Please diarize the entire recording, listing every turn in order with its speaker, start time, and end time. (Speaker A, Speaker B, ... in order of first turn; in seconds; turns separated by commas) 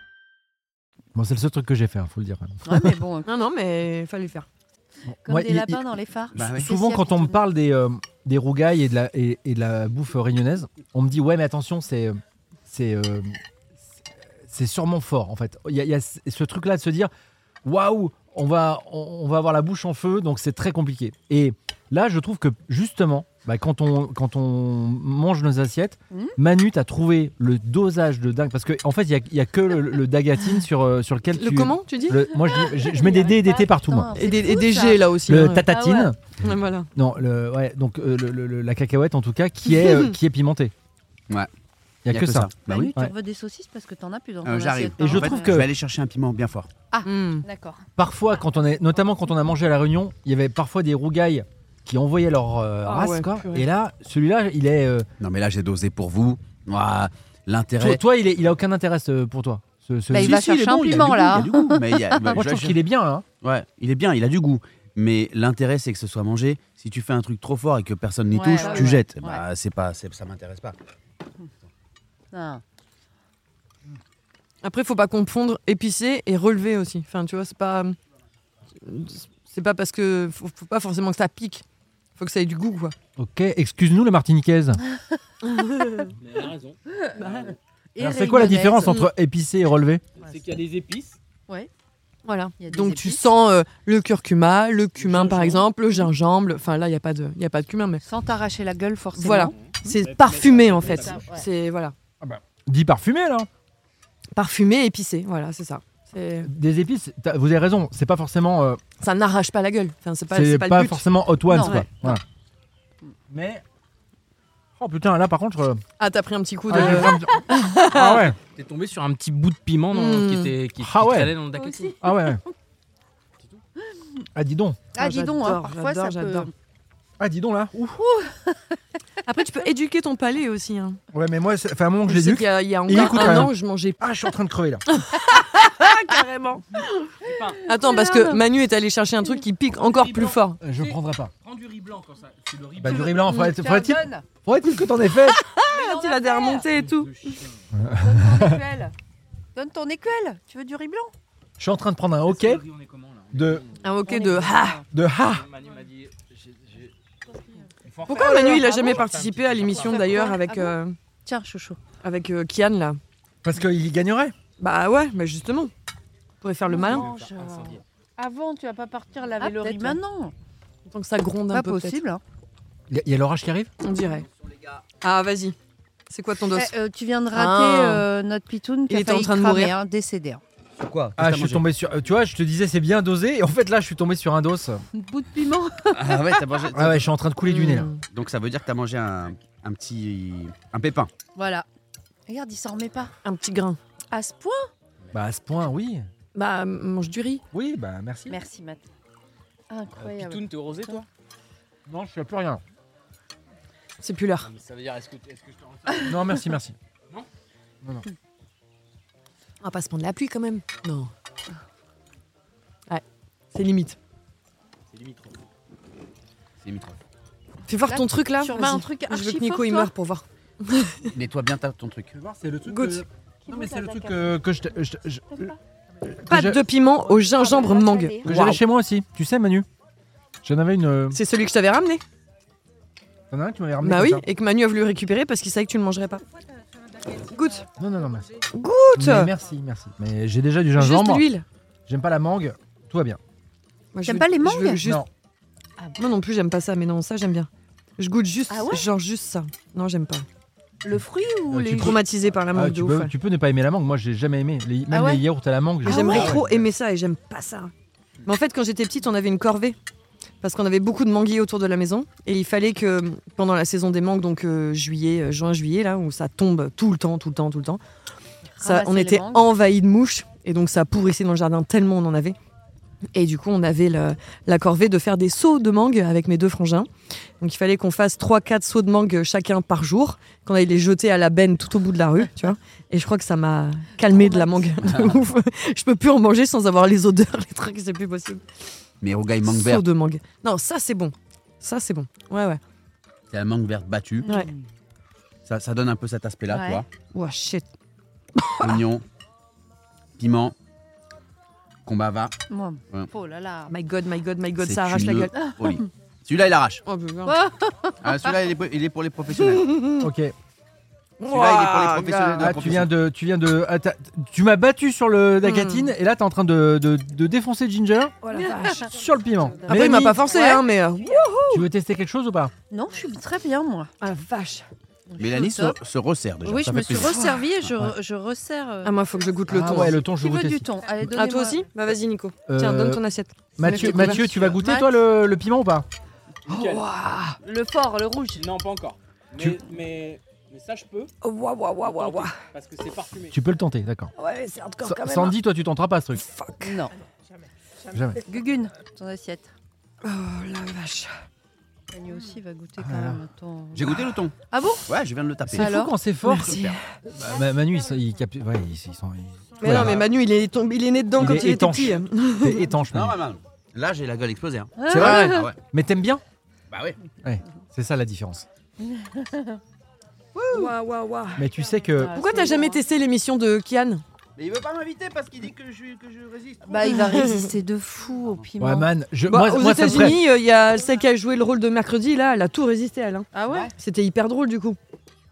Speaker A: 1.1-3.0, Speaker B: 2.6-3.3, Speaker C: 3.2-4.5, Speaker A: 5.1-13.4, Speaker B: 5.3-7.4, Speaker D: 6.3-6.7, Speaker A: 14.4-17.1, Speaker A: 17.6-34.2, Speaker C: 31.4-32.2, Speaker B: 32.2-35.1, Speaker C: 34.2-35.7, Speaker A: 35.3-36.2, Speaker B: 35.6-36.1, Speaker C: 36.4-36.9, Speaker A: 37.0-40.7, Speaker C: 39.7-40.1, Speaker A: 42.0-43.1, Speaker D: 42.1-43.0, Speaker B: 42.7-45.5, Speaker D: 44.4-46.7, Speaker A: 45.0-45.7, Speaker B: 46.9-47.8, Speaker C: 47.0-47.5, Speaker A: 48.0-55.1, Speaker C: 52.9-53.7, Speaker D: 55.2-58.0, Speaker A: 57.8-60.4, Speaker B: 60.1-62.4, Speaker D: 60.1-62.8, Speaker A: 62.3-63.3, Speaker D: 63.4-70.8, Speaker B: 68.3-69.4, Speaker C: 68.6-69.0, Speaker B: 72.3-72.6, Speaker C: 74.6-78.0, Speaker C: 78.8-81.6, Speaker C: 82.2-83.0, Speaker A: 83.2-84.8, Speaker C: 85.5-86.0, Speaker E: 86.2-87.6, Speaker B: 88.0-89.0, Speaker A: 88.0-90.0, Speaker E: 90.2-91.2, Speaker C: 92.3-98.0, Speaker B: 92.6-93.3, Speaker E: 95.0-95.7, Speaker B: 98.0-99.5, Speaker C: 99.2-101.9, Speaker E: 99.5-101.4, Speaker B: 100.9-101.4, Speaker A: 102.2-103.5, Speaker C: 104.3-106.5, Speaker A: 106.5-108.8, Speaker C: 109.0-111.9, Speaker A: 110.3-112.2, Speaker B: 111.5-112.2, Speaker A: 113.3-113.6, Speaker A: 114.8-115.8, Speaker C: 116.0-118.2, Speaker A: 116.7-118.4, Speaker E: 118.4-122.0, Speaker C: 119.9-120.5, Speaker A: 120.8-121.4, Speaker A: 122.0-122.4, Speaker A: 124.3-124.8, Speaker B: 124.9-126.5, Speaker C: 125.0-126.5, Speaker A: 127.2-128.0, Speaker B: 128.1-128.6, Speaker C: 129.3-131.0, Speaker A: 131.1-134.8, Speaker C: 132.1-134.0, Speaker C: 134.9-136.7, Speaker E: 137.2-137.6, Speaker B: 137.3-138.4, Speaker C: 137.7-140.6, Speaker E: 139.8-143.4, Speaker A: 140.6-141.3, Speaker A: 142.8-145.4, Speaker B: 142.9-144.2, Speaker C: 145.4-147.4, Speaker B: 145.6-146.7, Speaker E: 146.8-147.9, Speaker A: 147.8-148.6, Speaker B: 148.0-148.9, Speaker B: 149.6-151.1, Speaker A: 151.6-152.6, Speaker E: 152.3-154.2, Speaker A: 153.3-153.6, Speaker C: 153.8-154.8, Speaker B: 154.1-154.9, Speaker A: 154.9-155.5, Speaker E: 155.2-156.9, Speaker E: 157.8-160.4, Speaker C: 158.1-161.0, Speaker B: 159.8-160.7, Speaker B: 161.2-161.8, Speaker C: 162.0-163.0, Speaker A: 163.4-164.3, Speaker C: 164.6-165.7, Speaker C: 166.4-167.1, Speaker B: 166.7-170.3, Speaker E: 166.8-167.8, Speaker C: 169.4-170.0, Speaker C: 170.9-172.0, Speaker B: 171.5-172.2, Speaker A: 172.9-173.7, Speaker C: 173.8-174.3, Speaker E: 174.4-174.8, Speaker C: 175.0-175.6, Speaker C: 176.1-176.7, Speaker B: 176.5-180.4, Speaker C: 177.3-178.1, Speaker C: 178.9-179.7, Speaker D: 180.8-181.7, Speaker A: 181.2-184.8, Speaker B: 184.9-186.4, Speaker D: 185.9-187.1, Speaker A: 186.7-187.9, Speaker C: 187.4-188.0, Speaker D: 188.1-191.1, Speaker B: 191.3-191.7, Speaker B: 192.3-193.1, Speaker C: 193.2-193.8, Speaker B: 194.1-194.7, Speaker A: 195.1-196.1, Speaker C: 196.3-197.4, Speaker A: 197.5-198.4, Speaker B: 198.3-198.8, Speaker B: 199.7-201.0, Speaker E: 200.0-201.1, Speaker A: 201.9-202.6, Speaker C: 204.0-204.5, Speaker E: 204.4-206.3, Speaker A: 206.1-206.8, Speaker C: 209.6-211.1, Speaker C: 212.9-214.0, Speaker E: 214.9-215.4, Speaker D: 216.6-217.0, Speaker C: 217.7-221.1, Speaker B: 217.9-219.9, Speaker D: 221.1-222.1, Speaker A: 222.1-225.5, Speaker C: 222.7-223.1, Speaker B: 223.5-224.2, Speaker A: 226.1-226.6, Speaker C: 226.3-228.6, Speaker B: 227.2-228.3, Speaker A: 228.2-229.7, Speaker A: 230.4-231.2, Speaker C: 231.1-232.0, Speaker A: 233.3-234.2, Speaker C: 233.8-236.2, Speaker C: 237.2-237.7, Speaker A: 237.8-238.3, Speaker C: 238.5-239.3, Speaker A: 238.9-241.3, Speaker C: 240.8-241.4, Speaker A: 241.9-243.2, Speaker C: 243.9-245.0, Speaker B: 244.1-244.8, Speaker A: 244.8-245.1, Speaker C: 246.0-250.3, Speaker B: 248.5-248.9, Speaker B: 250.8-252.0, Speaker A: 251.5-252.0, Speaker C: 251.7-253.1, Speaker A: 252.5-256.4, Speaker B: 254.9-255.2, Speaker B: 255.8-256.4, Speaker C: 255.8-257.7, Speaker C: 258.2-259.8, Speaker C: 260.4-267.8, Speaker B: 268.6-269.5, Speaker C: 268.6-272.4, Speaker C: 273.1-288.4, Speaker B: 284.1-284.7, Speaker D: 284.8-285.2, Speaker D: 289.0-289.9, Speaker C: 289.4-292.6, Speaker D: 293.3-294.3, Speaker B: 294.2-294.6, Speaker C: 294.2-294.5, Speaker D: 295.5-296.9, Speaker B: 296.5-296.8, Speaker C: 297.1-297.7, Speaker C: 298.4-298.8, Speaker D: 298.6-299.0, Speaker D: 300.2-300.6, Speaker D: 301.9-302.3, Speaker B: 302.5-303.7, Speaker C: 303.7-305.3, Speaker D: 304.6-306.8, Speaker B: 305.4-305.8, Speaker C: 306.9-307.4, Speaker B: 307.3-308.0, Speaker D: 308.0-309.8, Speaker C: 309.4-310.1, Speaker A: 310.0-310.3, Speaker C: 311.2-312.5, Speaker D: 311.3-312.9, Speaker A: 312.4-320.3, Speaker C: 315.4-315.9, Speaker C: 318.2-318.9, Speaker B: 318.4-318.9, Speaker C: 319.7-321.7, Speaker B: 319.7-320.7, Speaker A: 321.5-322.5, Speaker B: 322.7-323.9, Speaker C: 324.0-324.7, Speaker B: 325.1-325.8, Speaker D: 325.2-327.2, Speaker B: 326.4-328.9, Speaker C: 328.8-330.0, Speaker A: 329.5-330.7, Speaker B: 329.9-331.6, Speaker C: 331.0-334.3, Speaker A: 332.5-333.0, Speaker A: 333.6-335.9, Speaker B: 333.8-334.9, Speaker E: 336.5-336.9, Speaker C: 336.5-337.4, Speaker B: 337.4-338.4, Speaker E: 338.4-341.1, Speaker C: 341.2-342.4, Speaker E: 341.8-343.4, Speaker A: 343.3-344.1, Speaker C: 344.2-345.4, Speaker A: 344.8-346.2, Speaker C: 346.2-346.8, Speaker B: 346.6-346.9, Speaker A: 347.9-348.2, Speaker B: 348.2-349.5, Speaker C: 350.0-351.1, Speaker B: 351.9-354.9, Speaker A: 352.8-353.2, Speaker D: 353.7-354.4, Speaker D: 354.9-355.7, Speaker A: 355.5-360.0, Speaker B: 355.5-355.9, Speaker C: 356.2-356.8, Speaker D: 356.4-356.8, Speaker C: 359.6-362.6, Speaker D: 359.7-359.9, Speaker A: 361.2-363.2, Speaker D: 362.9-365.6, Speaker B: 364.8-365.4, Speaker A: 364.9-366.2, Speaker D: 366.7-367.0, Speaker A: 367.2-368.5, Speaker B: 368.8-369.6, Speaker C: 370.4-371.4, Speaker A: 371.4-372.2, Speaker B: 371.9-372.8, Speaker C: 372.1-374.0, Speaker D: 374.4-377.0, Speaker B: 376.7-378.9, Speaker C: 376.9-377.5, Speaker A: 378.6-380.2, Speaker C: 379.3-384.8, Speaker B: 383.3-383.7